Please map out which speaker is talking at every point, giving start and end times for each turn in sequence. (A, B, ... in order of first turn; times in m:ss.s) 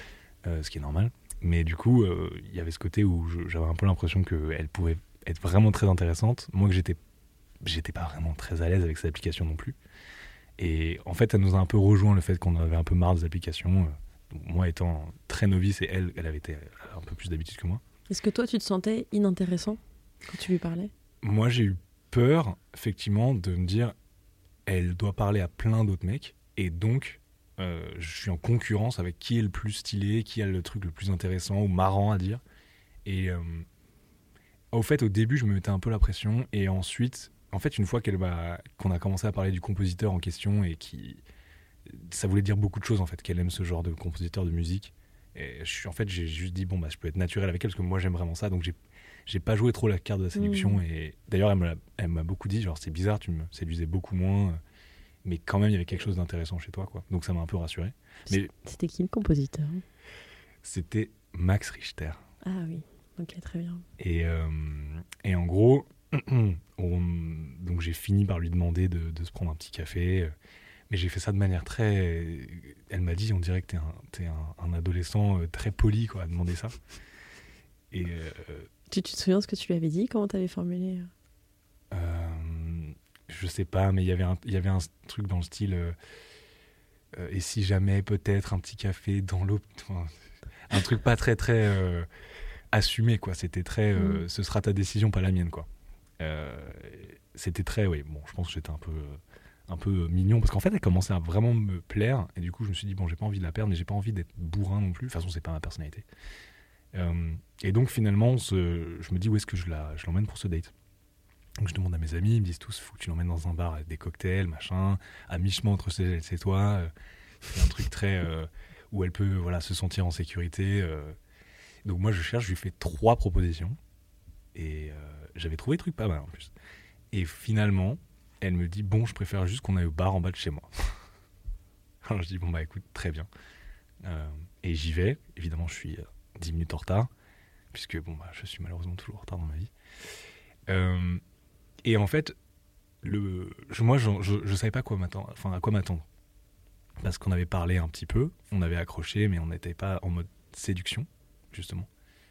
0:00.4-0:07.0 A
0:07.6-0:09.8 A
0:10.6-0:17.8 A
0:18.1-0:20.9 B
0:21.2-0:24.0 A
0:24.7-0:32.4 A
0:33.0-0:33.7 A
0:34.7-0:41.2 A
0:41.9-0:48.8 A
0:49.3-0:54.6 A
0:50.4-0:50.8 B
0:55.2-0:58.5 A
0:58.3-0:59.8 B
1:00.6-1:02.2 A
1:02.4-1:03.8 B
1:04.0-1:10.3 A
1:10.9-1:16.8 A
1:17.9-1:18.7 A
1:18.9-1:21.1 B
1:21.9-1:26.0 A
1:27.1-1:30.1 A
1:30.7-1:32.1 A
1:32.7-1:35.7 A
1:34.0-1:34.2 B
1:36.2-1:46.1 A
1:46.9-1:50.7 A
1:51.6-1:56.9 A
1:57.5-2:01.2 A
2:01.8-2:03.8 A
2:04.5-2:06.5 A
2:07.1-2:11.0 A
2:12.0-2:13.3 A
2:14.0-2:17.1 A
2:17.7-2:19.7 A
2:20.7-2:21.2 A
2:21.8-2:22.4 A
2:23.0-2:26.1 A
2:27.0-2:31.9 A